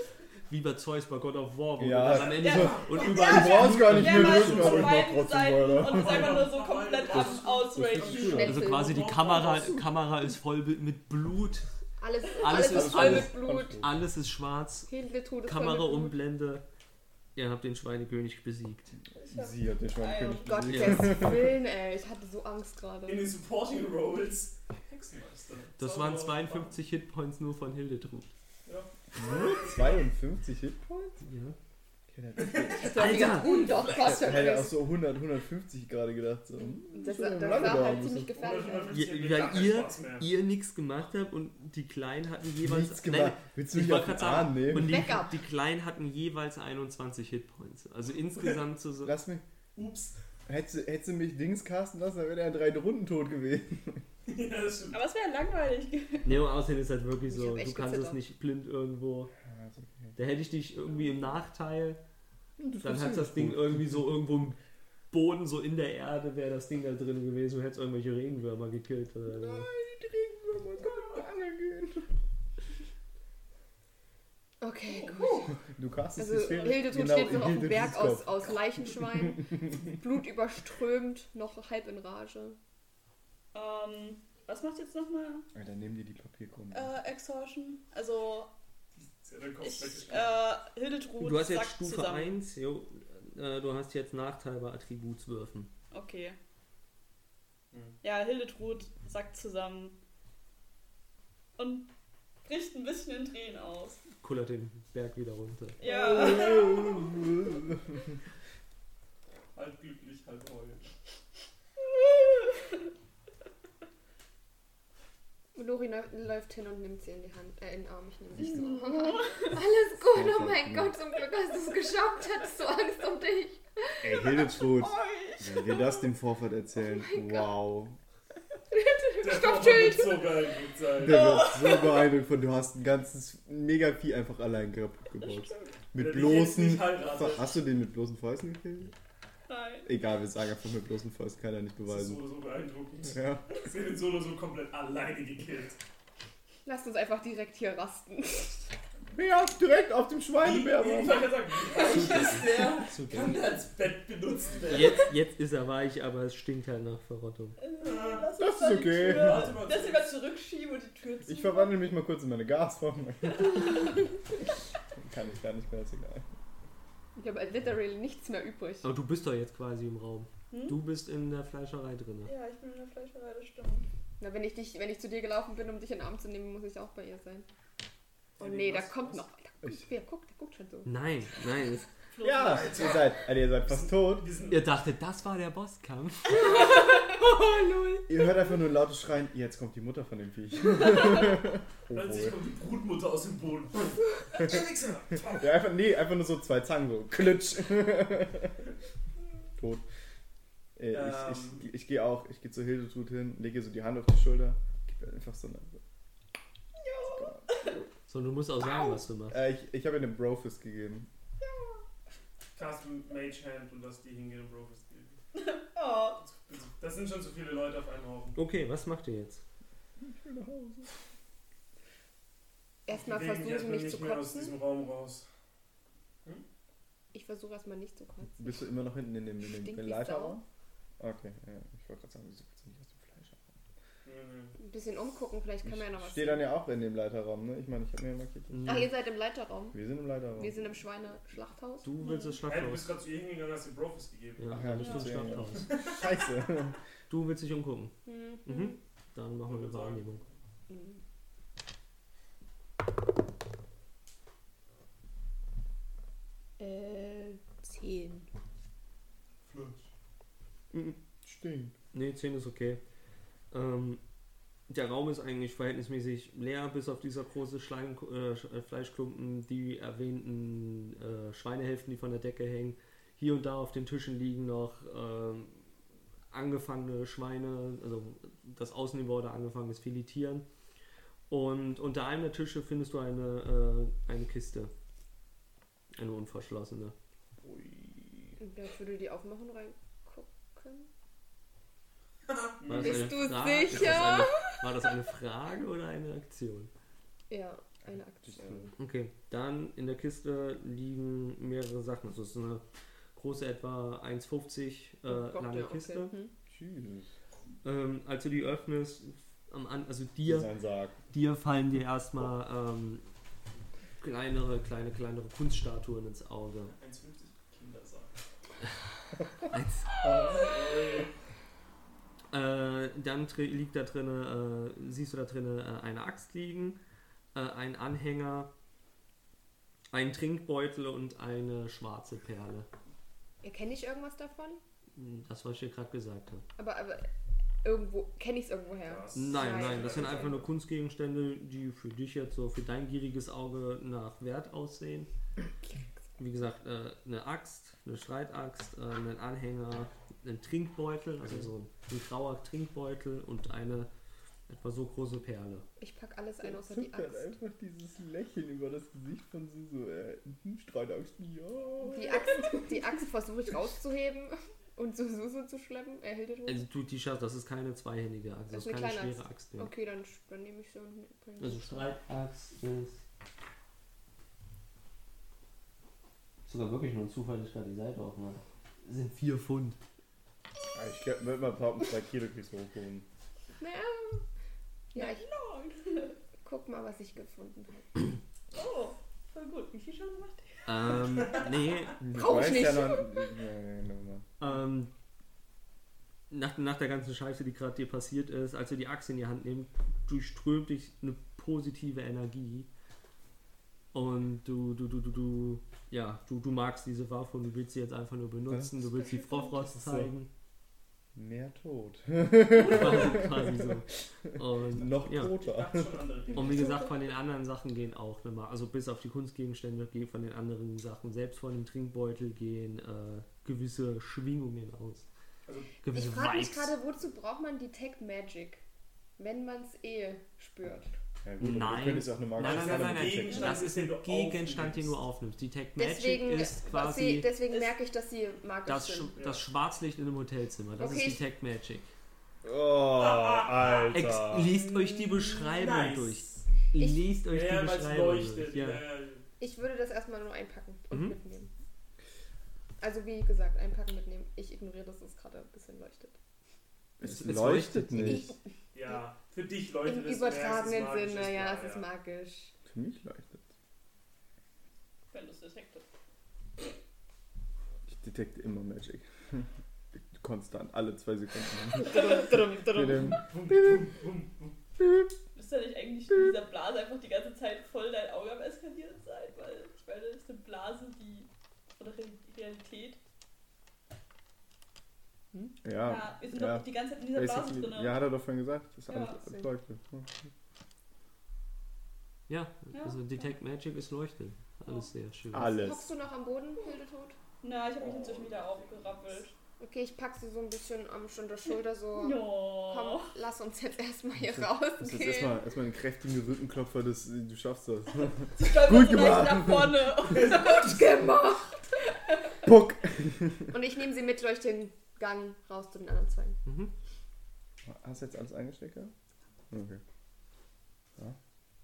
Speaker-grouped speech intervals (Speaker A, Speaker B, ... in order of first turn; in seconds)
Speaker A: 0.5-5.0, 7.1-11.7, 12.3-14.9, 15.4-16.6, 17.3-18.9, 20.7-21.2, 25.8-28.3, 31.2-31.6, 32.9-33.7, 38.9-49.1, 56.2-59.3, 60.1-62.0, 62.8-64.6, 65.1-69.7, 91.2-95.7, 104.2-105.8, 151.9-153.4, 154.7-157.6, 168.8-172.3, 180.8-181.9, 184.5-186.6, 208.1-209.4, 218.3-219.4, 238.5-238.9, 241.8-242.9, 244.4-245.7, 247.1-250.2, 261.9-262.8, 263.5-264.0, 264.7-275.7, 276.3-280.4, 281.3-284.7, 285.9-286.9, 292.6-296.7, 298.8-302.6, 303.1-306.1, 307.6-310.5, 311.1-313.1, 314.0-316.7, 319.5-319.9, 322.3-326.8, 327.3-328.5, 329.9-332.7, 334.9-336.4, 339.1-345.1, 346.2-353.9, 354.5-355.6, 366.4-369.7, 371.4-373.0, 376.4-379.8, 390.6-392.0, 394.4-394.9, 396.3-402.7, 403.9-410.3, 412.5-415.4, 416.3-425.1, 425.8-426.7, 431.4-437.3, 438.6-441.9, 443.9-448.9, 450.9-451.1, 457.0-458.3, 492.3-495.6, 516.4-516.7
Speaker B: 1.8-6.4, 12.4-13.9, 19.3-21.5, 29.1-31.2, 32.1-33.4, 33.9-38.3, 42.6-45.1, 49.0-49.4, 50.5-54.0, 59.4-60.1, 62.6-64.1, 69.3-72.1, 75.6-79.8, 85.5-86.9, 105.8-108.0, 120.0-120.9, 124.0-128.0, 131.0-138.9, 139.8-142.2, 143.1-143.5, 149.1-151.3, 158.4-159.6, 161.2-164.0, 165.0-166.3, 182.2-184.3, 188.1-192.3, 195.2-198.6, 199.6-199.8, 200.8-205.8, 207.1-207.7, 209.3-211.1, 220.0-220.9, 228.4-230.4, 231.0-233.5, 235.6-238.9, 239.7-240.6, 244.5-246.8, 260.7-261.7, 298.2-298.7, 306.5-307.1, 310.2-311.0, 320.0-320.7, 356.4-362.7, 380.7-383.0, 392.0-394.3, 408.5-408.9, 409.6-410.1, 411.1-413.7, 414.7-416.0, 431.2-433.5, 442.4-444.5, 457.0-458.3, 462.7-463.4, 467.9-473.8, 485.6-490.3, 495.3-495.9, 504.3-509.9, 512.4-513.5, 517.6-518.9, 519.5-519.8
Speaker C: 2.1-3.1, 4.4-5.0, 5.8-7.7, 8.4-9.8, 23.1-26.7, 28.6-30.1, 32.4-34.5, 37.4-40.3, 49.7-50.1, 54.3-55.0, 89.0-90.4, 97.7-98.0, 109.5-110.9, 129.2-131.4, 135.9-137.6, 141.8-145.8, 150.4-155.1, 157.8-158.3, 159.1-160.2, 178.4-179.2, 182.4-184.8, 191.9-195.5, 200.9-201.6, 212.6-215.2, 216.2-218.4, 222.9-225.2, 234.0-234.6, 242.4-246.3, 249.4-250.3, 259.4-259.9, 292.4-293.2, 316.6-318.2, 320.0-321.1, 338.8-340.4, 391.1-391.5, 415.4-416.8, 425.5-425.8, 432.4-434.9, 439.1-439.4, 442.9-444.0, 445.5-446.3, 447.3-449.2, 458.7-461.9, 473.1-474.5, 497.8-498.9, 510.1-511.2
Speaker D: 2.2-8.6, 19.2-20.9, 54.9-56.5, 74.8-75.5, 83.5-85.5, 86.7-88.5, 89.6-92.3, 95.9-96.4, 98.0-100.0, 101.6-101.9, 102.4-104.0, 105.8-107.3, 112.2-112.5, 118.4-119.4, 124.6-126.1, 131.0-132.1, 135.2-135.8, 139.5-139.9, 151.6-152.9, 157.6-161.8, 170.5-170.8, 172.2-173.9, 182.1-182.9, 206.8-207.8, 211.4-211.8, 215.3-216.2, 242.0-242.4, 244.8-245.2, 384.9-386.1, 388.5-391.0, 392.4-392.8, 437.5-437.7, 465.1-465.9, 475.3-483.0, 485.8-488.0, 488.9-489.2, 492.7-493.0, 497.4-499.3, 501.9-503.1, 508.3-510.4
Speaker E: 7.9-9.3, 12.0-13.8, 14.9-16.2, 20.4-23.4, 32.7-34.8, 36.6-39.4, 44.8-45.4, 57.3-58.2, 74.6-75.5, 76.2-82.6, 115.5-124.2, 126.7-127.7, 128.7-130.5, 146.6-148.7, 167.2-168.9, 174.2-177.5, 178.4-180.9, 186.3-188.4, 222.8-224.6, 227.1-228.7, 229.4-230.4, 234.6-236.5, 238.6-241.9, 248.1-248.8, 250.7-251.0, 256.6-258.3, 288.4-290.9, 292.7-294.6, 297.3-298.7, 305.1-306.3, 333.4-334.6, 336.6-337.1, 337.6-340.4, 355.8-357.4, 361.8-366.7, 368.5-371.9, 383.6-384.2, 384.9-385.2, 386.4-388.1, 392.1-393.3, 416.4-417.0, 425.9-428.6, 429.2-430.9, 435.8-439.1, 440.8-441.2, 444.5-445.4, 446.8-447.1, 449.4-451.5, 452.8-456.1, 458.0-458.3, 459.8-462.5, 471.8-473.1, 495.3-497.2, 499.6-505.4, 510.1-511.6, 513.5-516.4